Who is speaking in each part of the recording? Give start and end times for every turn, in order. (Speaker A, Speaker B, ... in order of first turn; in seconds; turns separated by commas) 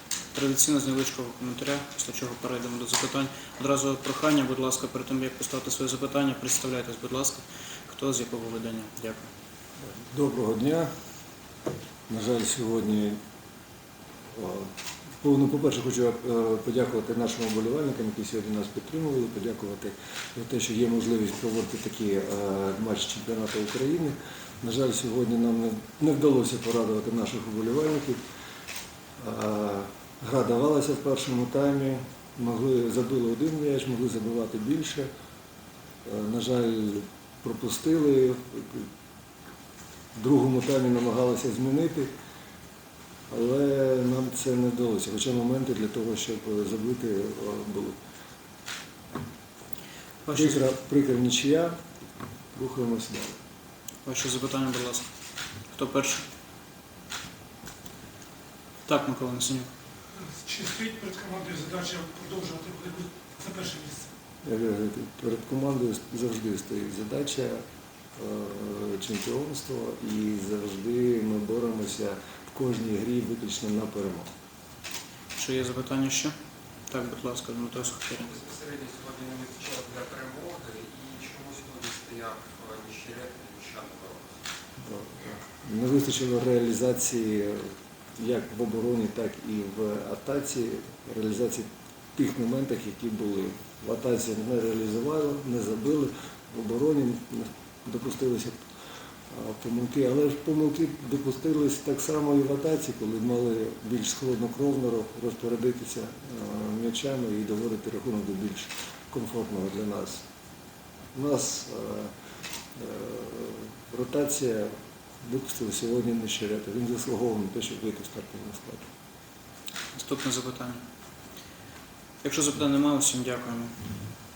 Speaker A: 0.3-9.3, Speaker B: 9.9-10.9, Speaker B: 12.1-13.2, Speaker B: 14.3-28.2, Speaker B: 29.2-35.1, Speaker B: 36.0-38.9, Speaker B: 40.1-42.1, Speaker B: 43.3-48.0, Speaker A: 50.3-50.6, Speaker B: 50.3-51.8, Speaker B: 52.5-53.4, Speaker A: 54.1-55.1, Speaker A: 55.7-56.2, Speaker A: 58.9-59.7, Speaker C: 60.4-64.1, Speaker B: 64.4-67.6, Speaker B: 68.2-74.3, Speaker A: 75.4-76.3, Speaker A: 76.9-78.3, Speaker D: 78.3-84.3, Speaker B: 84.8-98.6, Speaker B: 99.3-110.2, Speaker B: 111.1-112.1, Speaker B: 112.8-118.9, Speaker A: 119.9-120.8, Speaker A: 122.2-124.0